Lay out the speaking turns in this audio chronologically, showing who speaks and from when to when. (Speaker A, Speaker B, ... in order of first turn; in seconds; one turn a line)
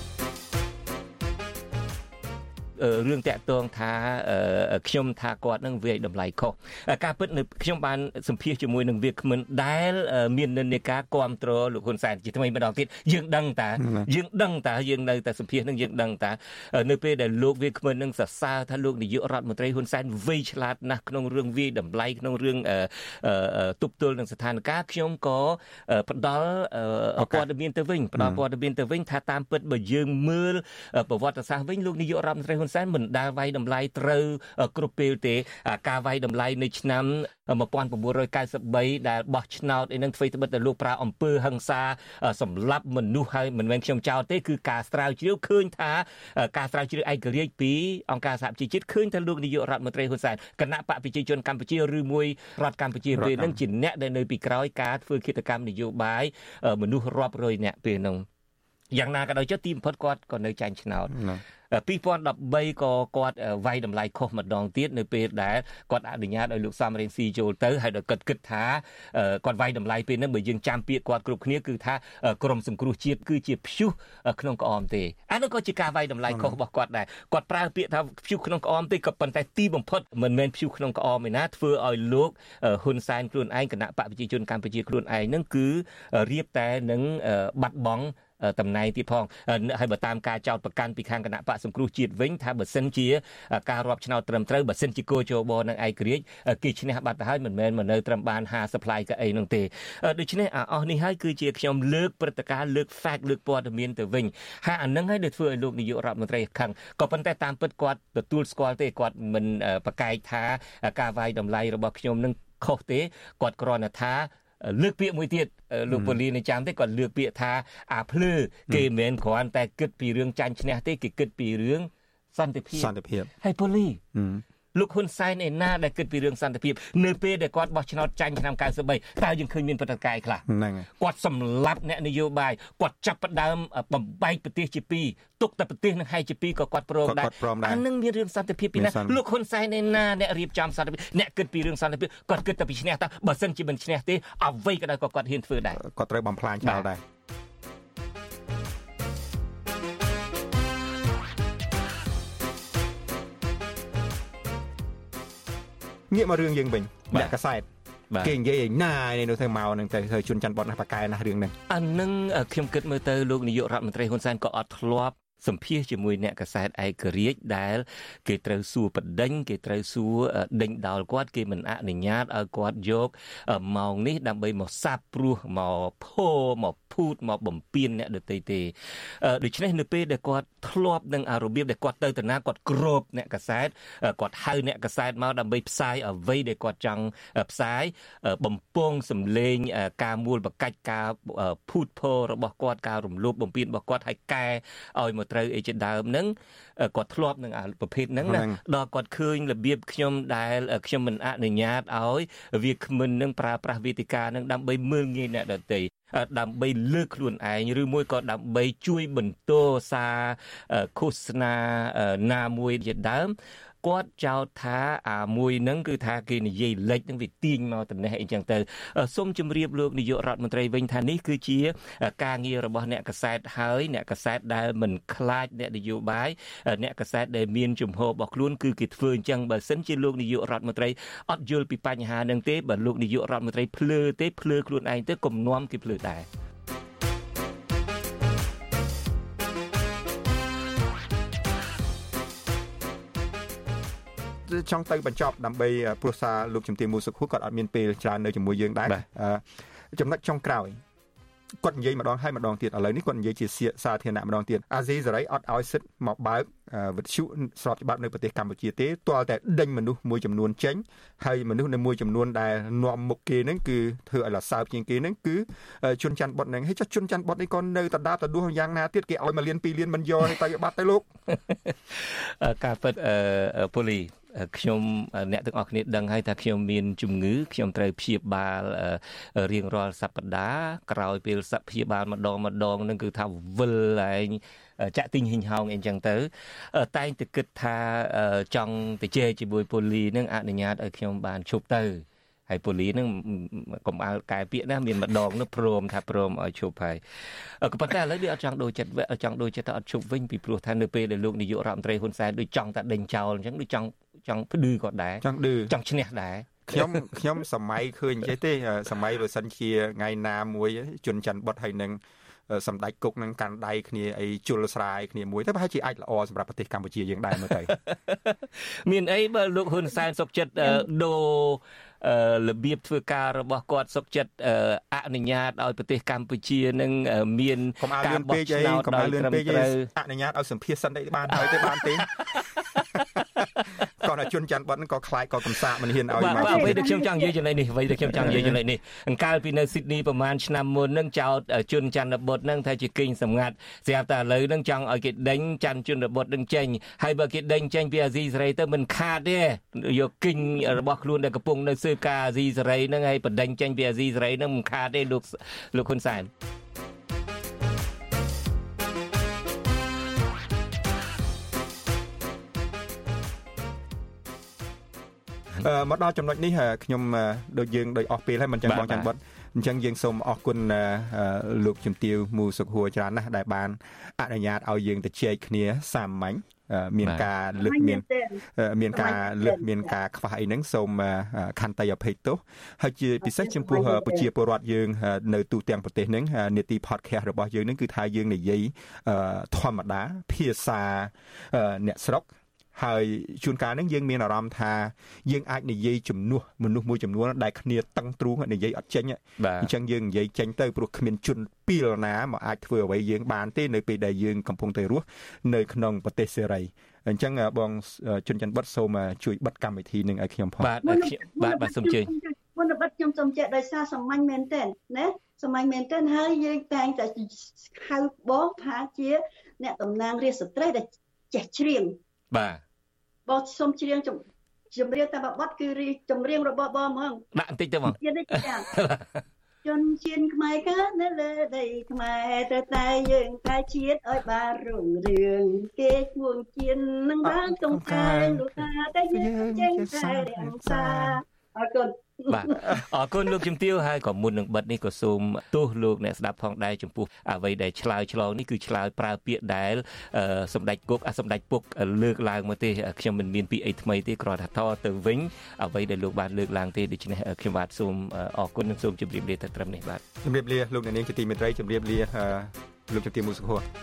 Speaker A: 2.8-58.2
Speaker B: 13.8-14.1
Speaker B: 27.2-27.5
Speaker B: 28.2-28.4
Speaker B: 53.1-53.6
Speaker A: 58.9-61.2
Speaker B: 61.1-61.4
Speaker A: 61.7-124.0
Speaker B: 76.3-76.6
Speaker B: 115.9-116.2
Speaker B: 122.7-123.3
Speaker B: 124.1-124.4
Speaker A: 124.8-130.4
Speaker B: 130.5-130.9
Speaker A: 131.0-145.8
Speaker B: 137.0-137.8
Speaker B: 138.8-139.2
Speaker B: 145.8-147.0
Speaker A: 146.6-146.9
Speaker B: 156.1-157.7
Speaker B: 158.2-161.5
Speaker A: 161.7-236.3
Speaker B: 198.2-198.6
Speaker B: 244.5-250.8
Speaker B: 251.6-271.1
Speaker A: 271.3-297.0
Speaker A: 297.6-307.0
Speaker B: 305.2-305.7
Speaker B: 306.7-317.7
Speaker A: 317.7-329.9
Speaker C: 320.6-320.9
Speaker B: 327.8-332.1
Speaker A: 331.3-332.8
Speaker B: 334.0-336.9
Speaker A: 336.1-356.3
Speaker C: 336.3-337.3
Speaker B: 338.0-338.6
Speaker B: 365.6-410.7
Speaker A: 368.6-369.1
Speaker C: 377.6-379.9
Speaker C: 383.2-384.3
Speaker A: 399.4-399.7
Speaker A: 410.6-412.1
Speaker C: 410.8-422.0
Speaker A: 422.3-422.6
Speaker C: 423.3-424.2
Speaker C: 424.7-427.2
Speaker A: 427.3-429.2
Speaker C: 427.9-428.7
Speaker C: 429.6-442.6
Speaker B: 437.2-438.5
Speaker B: 439.1-441.2
Speaker A: 442.3-460.0
Speaker B: 460.2-463.6